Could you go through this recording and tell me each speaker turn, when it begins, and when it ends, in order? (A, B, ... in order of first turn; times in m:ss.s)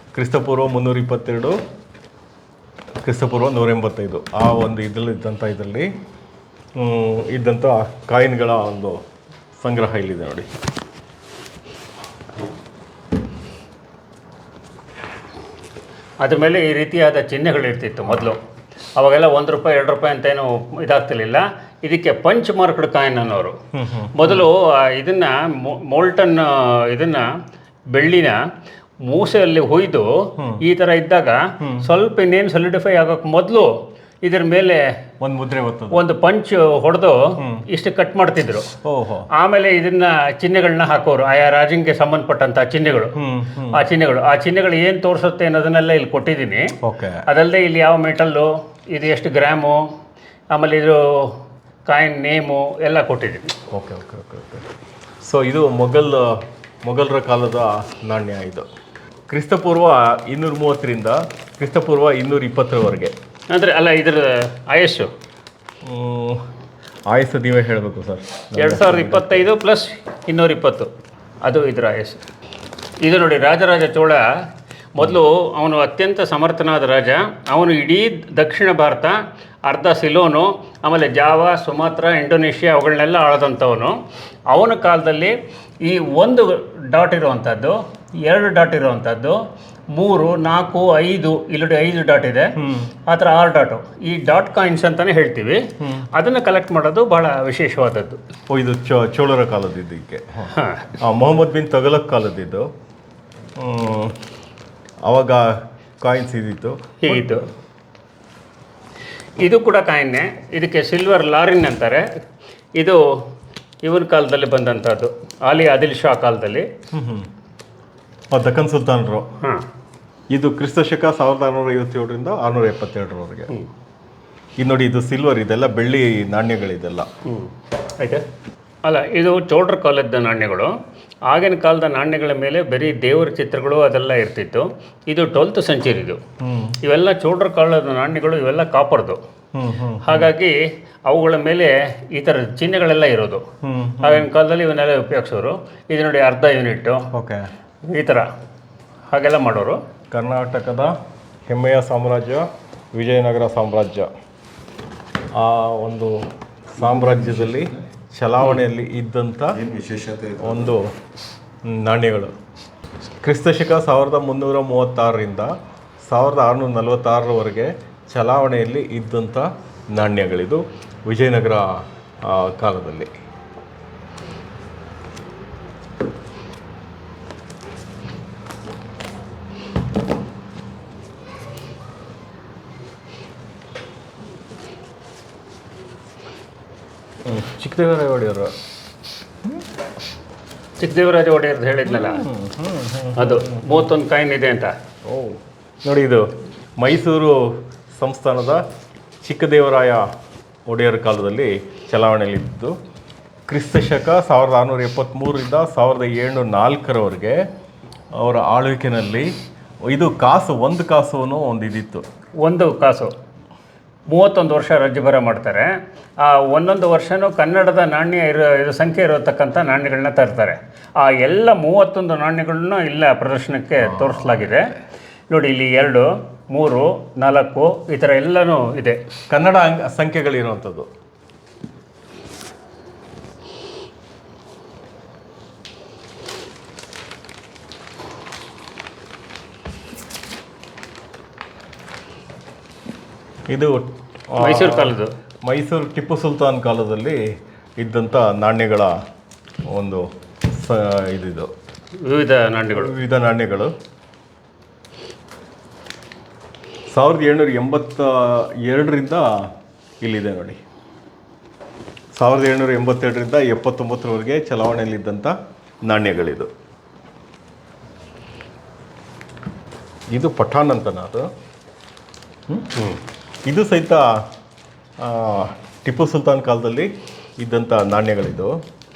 0:00.1-0:01.6 A
0:03.0-0:05.9 A
0:06.8-0:09.0 A
0:09.6-0:10.5 A
0:16.2-0:18.4 B
0:19.0-0:23.6 B
0:23.7-0:24.5 A
0:24.1-0:27.4 B
0:27.9-0:28.4 B
0:29.0-0:34.9 B
0:30.4-0:30.6 A
0:31.6-0:31.9 A
0:35.2-0:36.0 A
0:35.9-0:38.7 B
0:37.4-0:37.6 A
0:38.8-0:39.3 A
0:39.3-0:43.2 B
0:43.2-0:43.8 A
0:43.7-0:46.7 B
0:46.8-0:47.2 A
0:47.3-0:49.9 B
0:50.5-0:53.5 B
0:53.7-0:54.7 A
0:55.2-0:58.7 A
0:59.3-1:03.1 A
1:03.5-1:05.1 B
1:05.8-1:06.4 A
1:07.1-1:09.5 A
1:08.6-1:10.9 B
1:11.4-1:12.2 B
1:13.0-1:14.3 B
1:14.9-1:32.6 B
1:32.6-1:32.9 A
1:33.1-1:38.2 B
1:35.8-1:36.1 A
1:38.5-1:42.7 A
1:40.5-1:41.0 B
1:43.6-1:44.2 A
1:45.0-1:47.4 A
1:47.0-1:47.4 B
1:49.4-1:52.1 B
1:52.8-1:53.0 B
1:53.8-1:56.7 B
1:56.9-1:57.3 A
1:58.3-1:59.3 A
2:00.3-2:03.5 A
2:04.6-2:07.1 A
2:07.2-2:08.2 B
2:08.8-2:16.2 B
2:16.4-2:16.8 A
2:16.8-2:19.2 B
2:19.5-2:20.3 A
2:20.0-2:23.5 B
2:23.6-2:24.3 A
2:24.0-2:27.1 B
2:27.1-2:27.5 A
2:27.8-2:28.3 B
2:29.1-2:29.8 B
2:30.1-2:31.0 A
2:31.5-2:34.1 A
2:35.3-2:39.6 A
2:36.8-2:37.7 C
2:39.5-2:40.8 C
2:40.4-2:40.9 A
2:41.6-2:42.3 A
2:43.0-2:53.1 A
3:07.2-3:08.6 A
3:10.8-3:12.2 B
3:11.8-3:13.8 A
3:13.2-3:14.7 B
3:15.0-3:18.6 A
3:19.2-3:20.1 A
3:20.7-3:22.8 A
3:23.5-3:27.5 A
3:28.1-3:29.3 A
3:29.9-3:32.0 A
3:32.4-3:33.1 B
3:34.1-3:44.7 B
3:43.8-3:44.8 A
3:45.3-3:49.0 B
3:49.3-3:50.9 A
4:03.5-4:07.2 A
4:04.4-4:05.1 B
4:07.8-4:09.0 A
4:09.7-4:11.5 A
4:12.0-4:12.9 B
4:12.7-4:13.7 A
4:16.9-4:20.6 A
4:22.1-4:26.5 A
4:30.1-4:31.3 A
4:32.5-4:34.3 A
4:35.0-4:38.6 A